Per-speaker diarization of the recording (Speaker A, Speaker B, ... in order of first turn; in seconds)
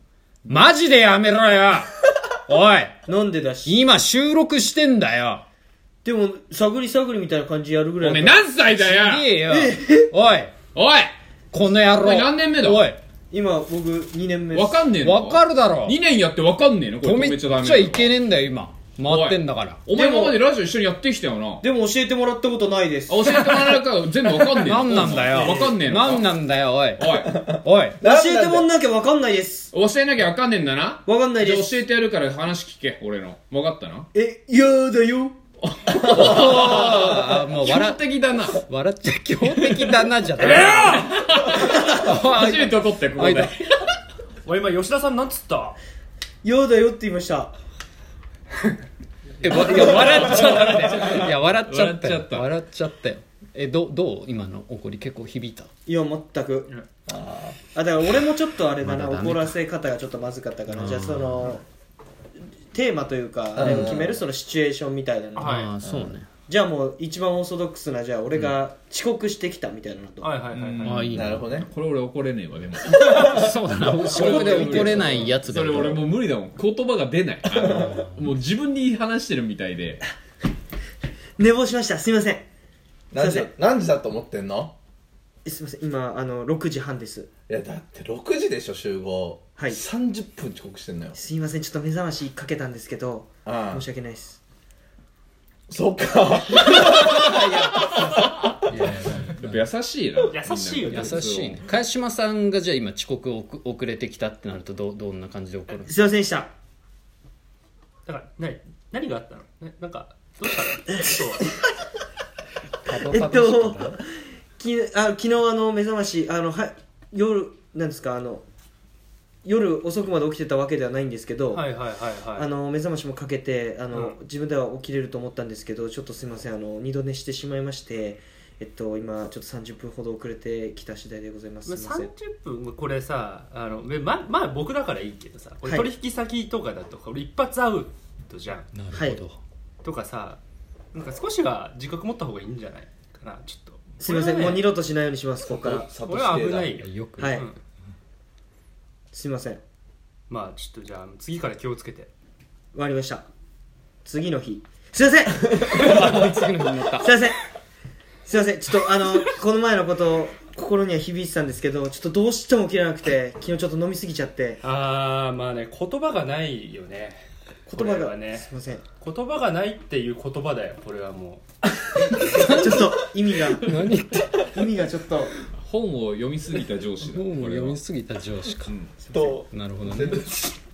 Speaker A: 0.5-1.9, 2.5-3.0, 3.6-5.4, 8.8-10.5, 11.5-13.0, 15.0-16.0, 17.0-19.8, 24.6-28.0, 36.1-41.1, 41.7-43.5, 49.4-55.7, 58.8-59.5, 60.7-61.6, 65.4-66.3, 70.8-71.5, 73.2-76.0, 77.7-78.3, 96.8-99.6, 100.9-106.1, 112.8-114.0, 138.7-139.4, 146.8-147.4, 155.8-157.1, 173.6-174.4, 177.0-178.7, 179.5-180.2
Speaker B: 3.0-3.8, 6.0-8.4, 9.4-10.1, 13.3-14.8, 19.9-20.4, 21.6-23.8, 28.0-29.7, 31.1-31.8, 34.1-35.3, 46.4-47.5, 49.5-50.8, 55.9-56.8, 57.7-61.6, 62.7-65.7, 66.5-70.3, 74.7-75.0, 81.4-82.5, 83.2-83.5, 85.4-87.3, 91.1-94.4, 105.8-106.5, 113.0-114.0, 114.6-118.4, 119.4-121.6, 122.3-132.1, 135.6-135.9, 138.9-139.2, 144.0-145.9, 147.2-147.5, 149.1-149.6, 152.7-153.3, 154.0-156.2, 156.9-157.4, 158.2-164.6, 167.7-168.8, 172.3-173.7, 174.4-175.3, 179.0-179.4
Speaker C: 8.0-9.3, 10.7-11.1, 11.9-12.9, 14.5-18.1, 19.0-21.6, 23.1-26.3, 27.0-27.4, 29.7-34.1, 35.6-38.6, 40.4-43.7, 49.7-52.5, 70.5-73.4, 74.1-80.0, 99.3-101.7, 175.5-177.8, 178.7-178.9
Speaker D: 25.3-25.6, 40.7-41.0, 44.4-45.8, 65.3-65.7, 70.2-71.0, 74.3-74.8, 100.3-101.2, 108.0-111.4, 121.5-122.5, 131.7-138.7, 139.8-140.4, 140.9-144.6, 146.1-147.5, 150.3-152.1, 164.6-168.5, 169.0-171.4
Speaker E: 27.1-28.7, 36.1-36.9, 57.1-57.6, 63.5-64.2, 65.8-66.2, 71.1-71.7, 72.9-75.2, 83.1-84.7, 87.5-91.2, 93.4-93.8, 95.7-98.5, 145.4-146.8, 179.1-180.6